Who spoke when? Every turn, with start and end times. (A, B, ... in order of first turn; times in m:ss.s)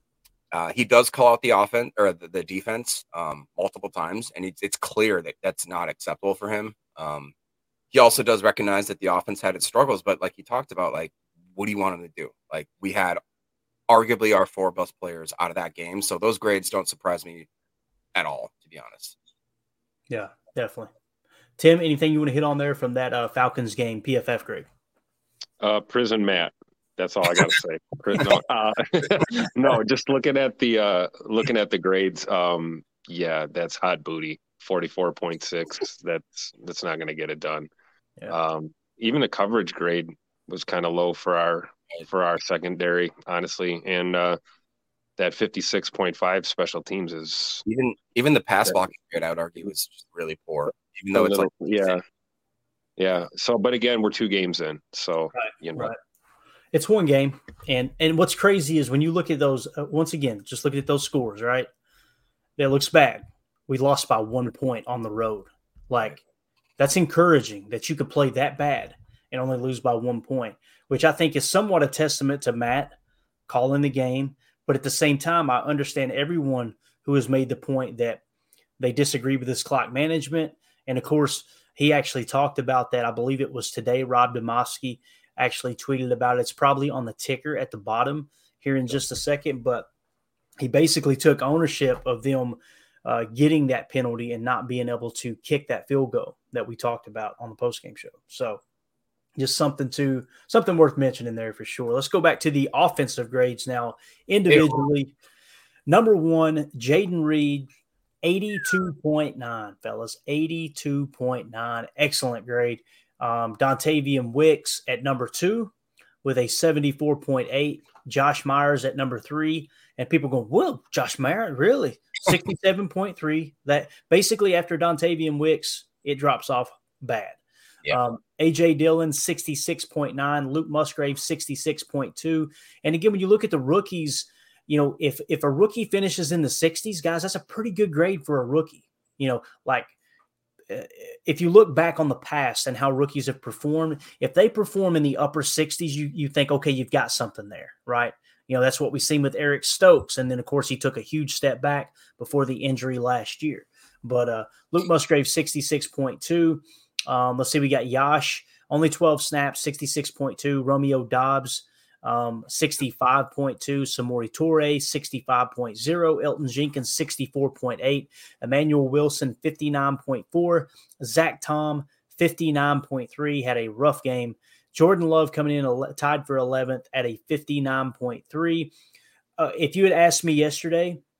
0:00.5-0:07.3 A
0:07.9-0:13.2 A
0:13.9-0:17.5 A
0:18.1-0:19.2 A
0:20.1-0:20.9 B
0:21.6-0:24.7 B
0:25.6-0:37.7 C
0:38.3-0:44.4 C
0:45.2-0:47.6 C
0:47.6-0:51.9 A
0:51.1-0:52.0 C
0:53.0-0:55.9 C
0:55.4-0:55.9 B
0:56.7-1:01.7 B
1:02.6-1:06.2 B
1:06.8-1:12.9 B
1:13.5-1:18.2 B
1:18.8-1:29.9 B
1:30.6-1:38.6 B
1:39.4-1:45.1 B
1:44.5-1:44.8 A
1:45.9-1:47.7 B
1:48.2-1:55.7 B
1:56.2-2:07.4 B
2:07.9-2:19.9 B
2:20.7-2:58.7 B
2:59.4-3:01.0 B